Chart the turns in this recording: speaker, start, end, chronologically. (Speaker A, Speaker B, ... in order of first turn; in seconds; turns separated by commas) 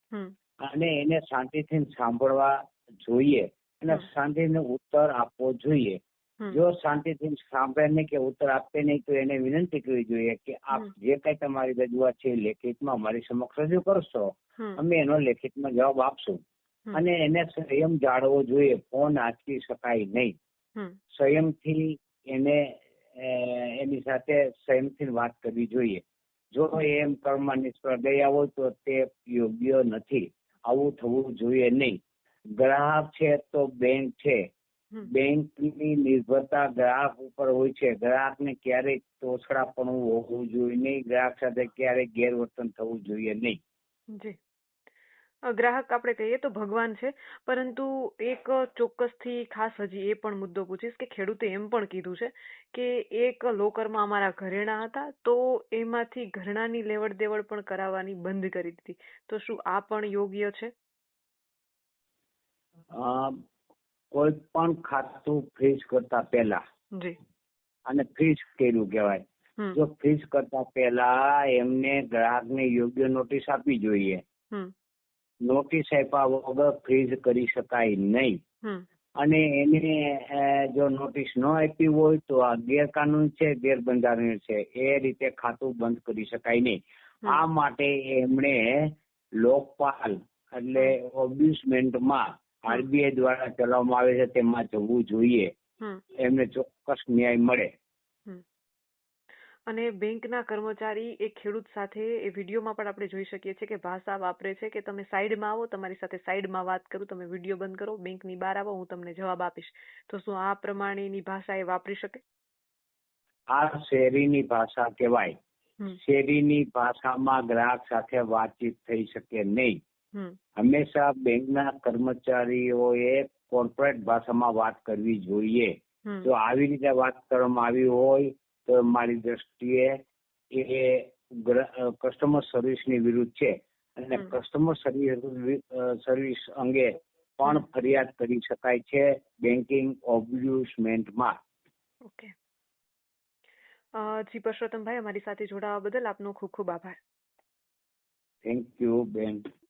Speaker A: 0.6-6.0, Speaker A: 6.5-16.4, Speaker A: 16.9-20.3, Speaker A: 21.1-32.0, Speaker A: 32.6-34.4, Speaker A: 35.1-43.6, Speaker B: 45.5-60.7, Speaker A: 63.0-63.4, Speaker A: 64.1-66.6, Speaker A: 67.9-69.2, Speaker A: 69.7-74.2, Speaker A: 75.5-78.4, Speaker A: 79.2-95.5, Speaker A: 96.2-97.7, Speaker B: 99.7-112.2, Speaker A: 113.5-115.3, Speaker A: 115.9-119.8, Speaker A: 120.6-130.0, Speaker A: 130.5-141.4, Speaker B: 142.0-142.3, Speaker B: 143.9-147.0, Speaker A: 148.4-149.4